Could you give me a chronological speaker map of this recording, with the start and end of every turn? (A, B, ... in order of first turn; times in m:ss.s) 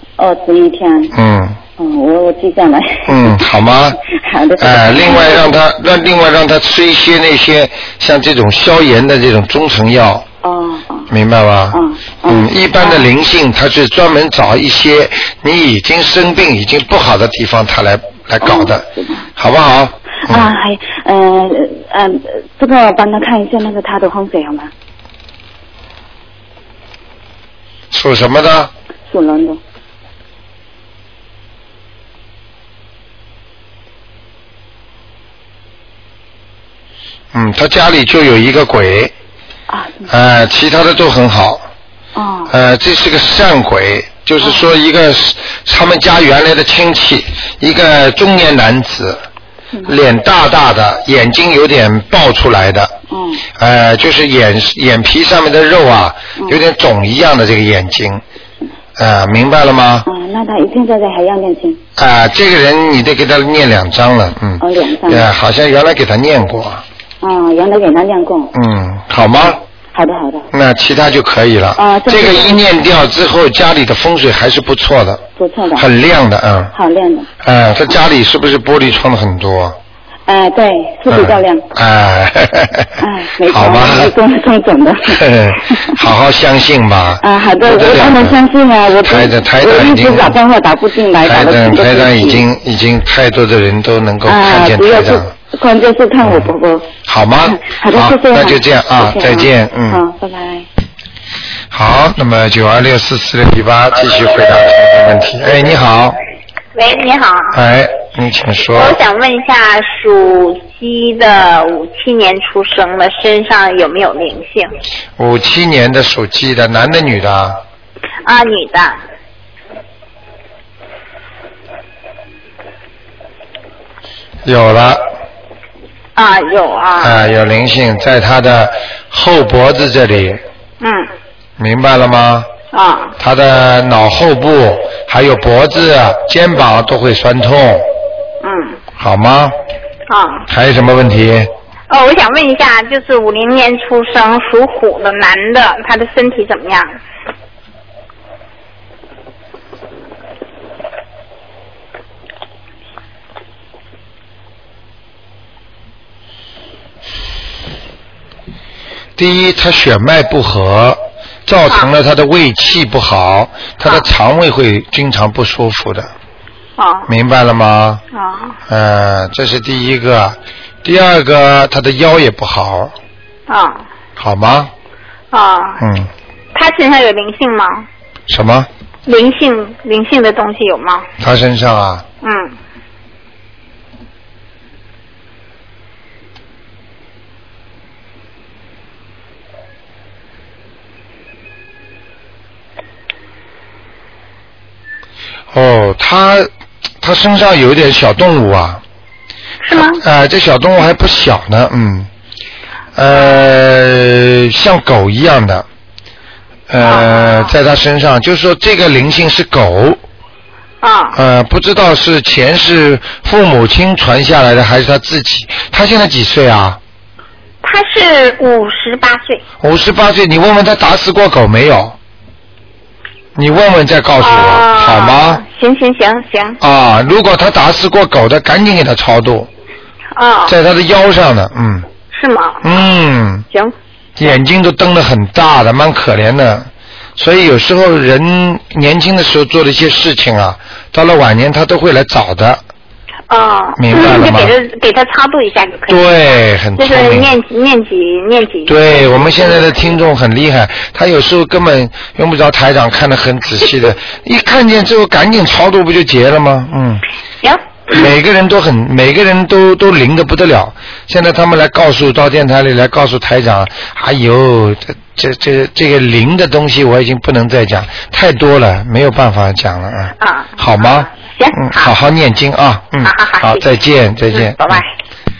0:00.2-0:01.2 A
0:01.1-0:01.6 B
0:01.8-0:05.6 A
0:03.1-0:04.0 B
0:04.6-0:10.3 B
0:10.4-0:11.1 A
0:11.1-0:20.5 B
0:11.7-0:13.1 A
0:18.4-0:19.3 A
0:20.3-0:24.7 A
0:27.9-0:28.7 B
0:29.1-0:29.6 A
0:37.3-0:39.1 B
0:39.7-0:40.1 A
0:40.1-0:41.6 B
0:42.2-0:42.5 A
0:42.5-0:49.2 B
0:49.9-0:52.9 B
0:53.1-0:53.4 A
0:53.6-0:58.2 B
0:56.4-0:56.6 A
0:59.0-1:00.1 B
1:00.1-1:01.8 A
1:02.0-1:06.8 B
1:04.6-1:05.3 A
1:07.2-1:08.5 A
1:08.5-1:09.6 B
1:09.9-1:10.5 A
1:10.5-1:15.2 B
1:11.8-1:12.6 A
1:15.4-1:15.9 A
1:15.8-1:16.7 B
1:16.7-1:17.3 A
1:17.4-1:19.8 B
1:20.3-1:21.7 A
1:21.1-1:24.1 B
1:23.0-1:26.0 A
1:25.1-1:28.4 B
1:27.2-1:32.4 A
1:29.0-1:30.4 B
1:31.2-1:35.3 B
1:34.3-1:36.9 A
1:36.2-1:36.5 B
1:37.1-1:40.0 B
1:37.4-1:40.7 A
1:41.7-1:46.2 B
1:46.8-1:47.6 C
1:47.5-1:49.0 B
1:48.7-1:54.7 C
1:55.2-1:57.6 B
1:58.2-1:59.0 C
2:04.4-2:05.0 B
2:06.2-2:07.2 C
2:07.0-2:10.4 B
2:10.8-2:11.1 C
2:11.6-2:12.5 B
2:12.7-2:13.2 C
2:13.2-2:17.9 B
2:18.4-2:18.8 C
2:19.0-2:19.6 B
2:20.1-2:20.5 C
2:20.5-2:21.5 B
2:21.9-2:27.0 C
2:39.2-2:46.1 B
2:46.8-2:47.1 C
2:47.1-2:48.0 B
2:48.1-2:48.6 C
2:48.7-2:52.9 B
2:53.5-2:53.8 C
2:54.2-2:54.7 B
2:55.3-2:55.8 C
2:55.8-2:56.1 B
2:56.5-2:57.9 C
2:58.3-2:58.7 B
2:59.1-3:01.1 C
3:01.2-3:02.0 B
3:02.2-3:02.6 C
3:15.5-3:16.5 B
3:17.0-3:18.8 B
3:19.6-3:20.0 C
3:19.7-3:22.1 B
3:23.0-3:25.7 B
3:26.7-3:30.0 B
3:26.8-3:27.5 C
3:30.8-3:31.2 C
3:31.1-3:36.8 B
3:37.6-3:39.4 C
3:39.6-3:42.0 B
3:43.4-3:45.4 B
3:44.2-3:46.6 C
3:46.6-3:49.5 B
3:50.2-3:50.6 C
3:50.5-3:51.9 B
3:52.1-3:52.7 C
3:52.6-3:53.5 B
3:54.2-4:02.6 B
4:03.3-4:06.1 C
4:03.8-4:04.6 B
4:05.9-4:07.3 B
4:06.8-4:09.9 C
4:08.7-4:17.0 B
4:17.4-4:18.0 C
4:17.9-4:34.8 B
4:30.2-4:31.9 C
4:33.0-4:33.6 C
4:34.3-4:34.9 C